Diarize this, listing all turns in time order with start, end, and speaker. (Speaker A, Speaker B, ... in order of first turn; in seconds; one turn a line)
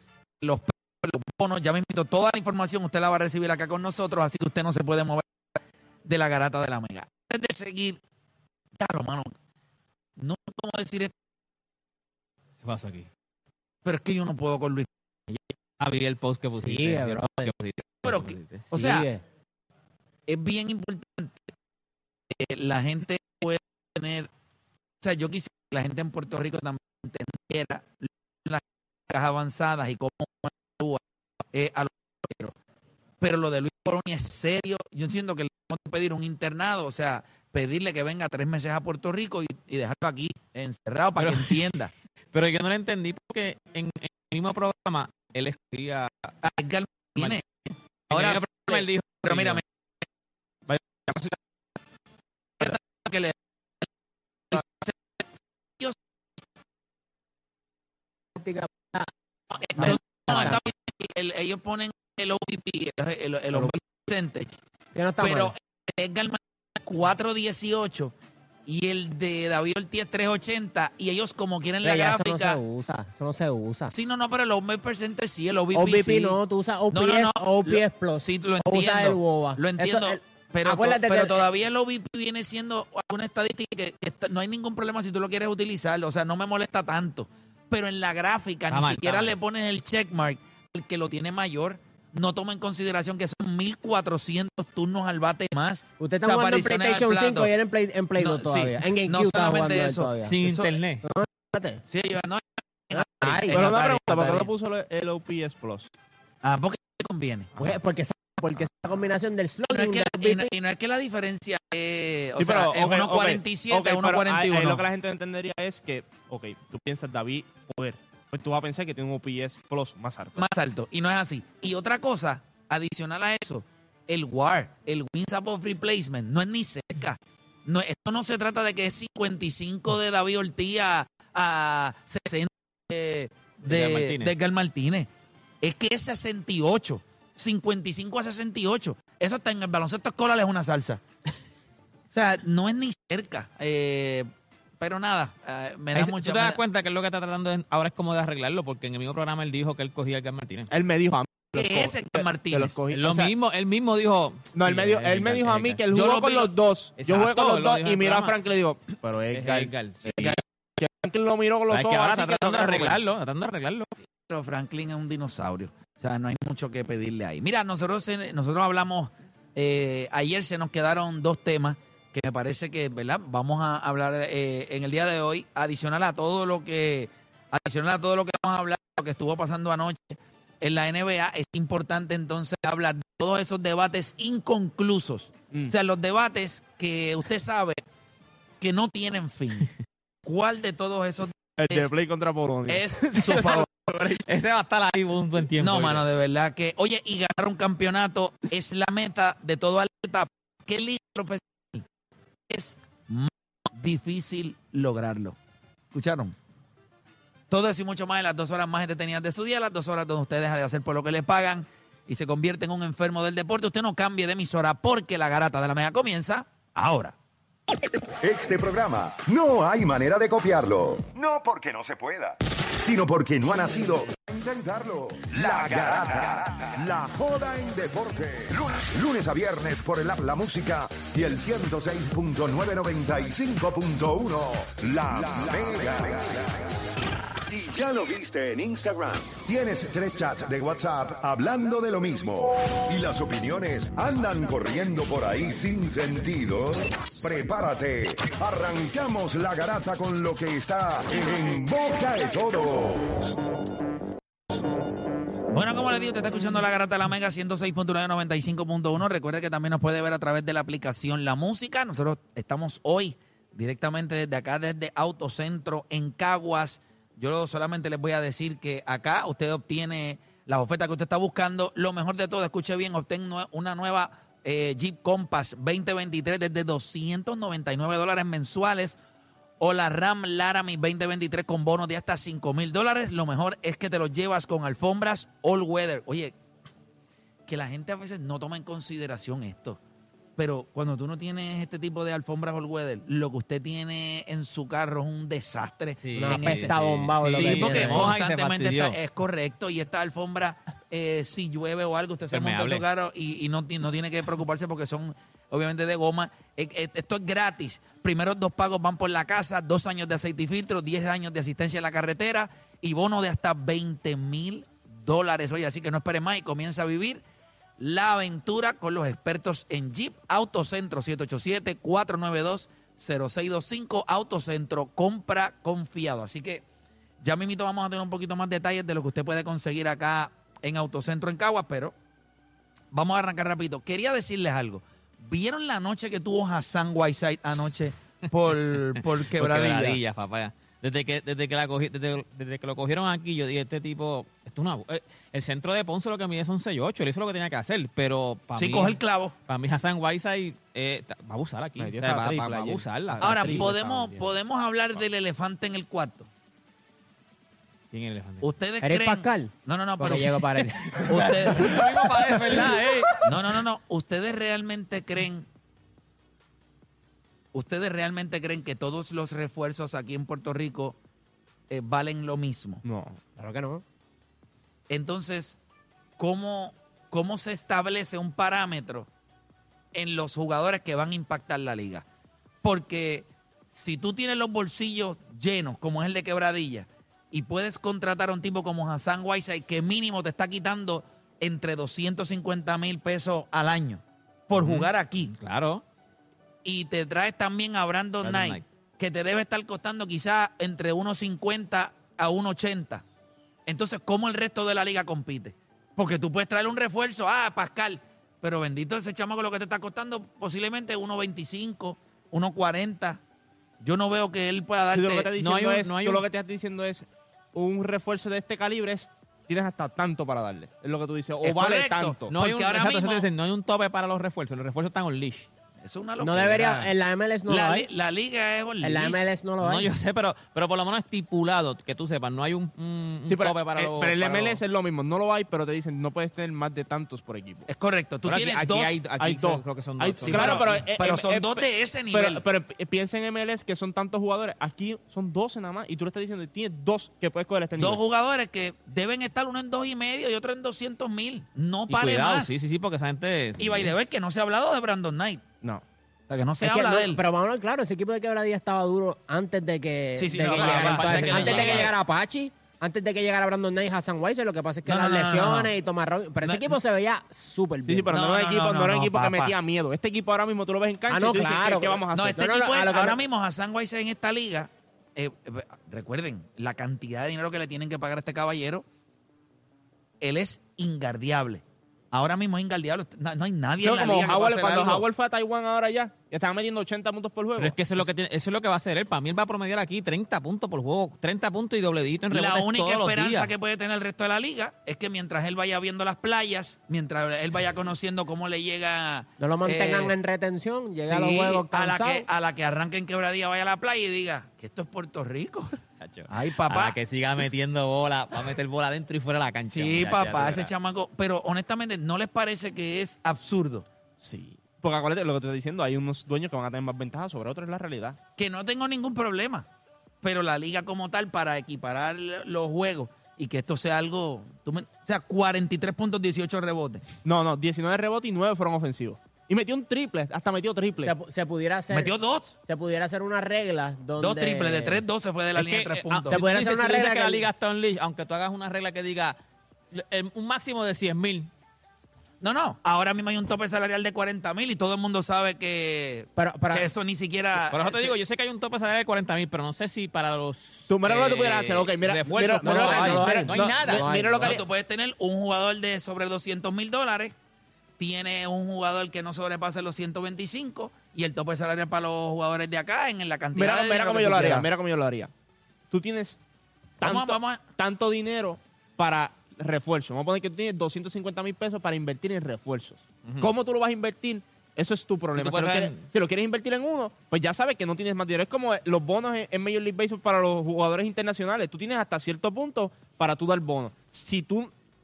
Speaker A: 0.4-5.3
Speaker A: 6.0-8.0
Speaker A: 8.8-9.3
Speaker A: 10.2-11.1
Speaker B: 12.6-13.1
Speaker A: 13.8-15.5
Speaker B: 15.8-18.6
Speaker C: 16.6-17.6
Speaker A: 18.0-19.1
Speaker C: 18.7-19.2
Speaker A: 20.3-21.5
Speaker A: 22.3-24.3
Speaker A: 25.0-31.0
Speaker A: 31.5-32.5
Speaker A: 33.2-41.9
Speaker B: 41.2-41.7
Speaker B: 42.3-46.1
Speaker A: 46.4-47.4
Speaker B: 48.1-49.6
Speaker A: 48.1-49.6
Speaker A: 51.1-51.3
Speaker A: 52.6-53.4
Speaker A: 54.5-55.0
Speaker C: 58.4-59.1
Speaker A: 59.6-64.5
Speaker C: 59.8-60.6
Speaker C: 64.9-65.5
Speaker A: 65.2-68.1
Speaker A: 68.7-72.6
Speaker C: 71.8-73.9
Speaker A: 73.9-76.4
Speaker C: 75.7-81.4
Speaker A: 76.9-97.5
Speaker B: 88.7-89.3
Speaker C: 96.0-100.4
Speaker A: 98.2-100.7
Speaker B: 100.2-101.0
Speaker C: 101.0-101.8
Speaker A: 101.9-104.5
Speaker C: 102.9-103.6
Speaker D: 103.5-105.9
Speaker A: 106.4-107.5
Speaker C: 107.6-110.5
Speaker A: 109.7-114.8
Speaker D: 112.4-120.4
Speaker A: 120.4-135.1
Speaker B: 133.6-134.3
Speaker A: 135.6-141.0
Speaker A: 142.1-144.3
Speaker A: 144.8-146.6
Speaker B: 145.9-150.7
Speaker D: 150.7-153.3
Speaker A: 151.5-152.8
Speaker B: 152.9-155.8
Speaker D: 154.5-163.0
Speaker A: 155.9-156.5
Speaker B: 157.0-158.3
Speaker B: 159.3-160.4
Speaker B: 161.7-163.9
Speaker A: 164.3-187.8
Speaker A: 188.6-189.7
Speaker A: 190.2-191.9
Speaker D: 191.6-194.2
Speaker A: 192.7-193.8
Speaker B: 194.3-196.1
Speaker A: 195.6-201.8
Speaker A: 202.5-205.4
Speaker A: 205.9-206.3
Speaker A: 207.5-217.1
Speaker E: 218.2-236.6
Speaker A: 225.7-226.3
Speaker E: 237.4-253.3
Speaker A: 255.5-279.0
Speaker A: 279.6-286.3
Speaker A: 287.5-289.8
Speaker A: 290.4-317.2
Speaker B: 296.0-299.0
Speaker C: 296.2-298.1
Speaker B: 302.3-302.8
Speaker A: 317.8-326.6
Speaker A: 327.2-331.9
Speaker A: 332.9-340.0
Speaker B: 339.0-349.0
Speaker A: 348.6-349.3
Speaker B: 349.5-353.7
Speaker D: 351.8-354.3
Speaker A: 353.2-356.3
Speaker B: 357.9-358.5
Speaker A: 358.4-360.4
Speaker C: 358.8-361.3
Speaker A: 361.1-361.9
Speaker B: 361.1-363.2
Speaker A: 363.2-365.4
Speaker A: 367.5-370.9
Speaker A: 371.7-372.8
Speaker D: 372.8-373.2
Speaker C: 373.4-373.8
Speaker A: 374.9-375.6
Speaker A: 376.2-379.1
Speaker A: 379.9-382.0
Speaker A: 382.6-395.3
Speaker B: 394.5-395.8
Speaker A: 396.6-403.0
Speaker B: 398.2-398.6
Speaker A: 403.7-413.2
Speaker A: 413.8-415.3
Speaker D: 414.9-422.3
Speaker B: 415.4-416.2
Speaker A: 421.4-423.3
Speaker B: 422.3-425.5
Speaker A: 425.8-426.9
Speaker C: 426.2-427.9
Speaker A: 427.5-429.3
Speaker C: 428.8-429.9
Speaker B: 429.6-434.6
Speaker D: 433.3-437.7
Speaker A: 437.7-438.9
Speaker D: 438.2-448.0
Speaker B: 438.6-440.8
Speaker A: 440.2-442.4
Speaker A: 447.8-452.5
Speaker B: 451.9-453.9
Speaker A: 453.6-455.5
Speaker A: 456.3-457.2
Speaker C: 456.6-468.1
Speaker A: 460.2-461.9
Speaker B: 460.5-461.9
Speaker A: 464.9-465.7
Speaker A: 466.4-466.7
Speaker D: 467.9-472.4
Speaker A: 468.1-469.5
Speaker C: 471.1-473.2
Speaker A: 472.1-478.8
Speaker A: 480.2-485.1
Speaker D: 483.8-488.0
Speaker B: 487.6-493.5
Speaker A: 492.3-500.1
Speaker C: 499.4-502.2
Speaker A: 501.1-507.0
Speaker B: 506.0-510.7
Speaker A: 509.7-513.9
Speaker D: 514.2-518.2
Speaker A: 518.4-519.6
Speaker A: 520.2-527.0
Speaker D: 527.2-531.1
Speaker C: 531.0-535.0
Speaker A: 531.9-532.5
Speaker A: 534.2-536.4
Speaker B: 535.5-539.4
Speaker C: 536.3-537.4
Speaker B: 539.9-541.5
Speaker A: 542.4-548.1
Speaker C: 546.4-546.9
Speaker B: 547.6-554.5
Speaker D: 550.9-554.6
Speaker C: 552.6-554.6
Speaker A: 554.4-557.3
Speaker A: 558.0-564.7
Speaker D: 563.5-565.3
Speaker D: 565.9-566.4
Speaker D: 567.0-584.7
Speaker A: 567.0-567.6
Speaker B: 575.3-576.0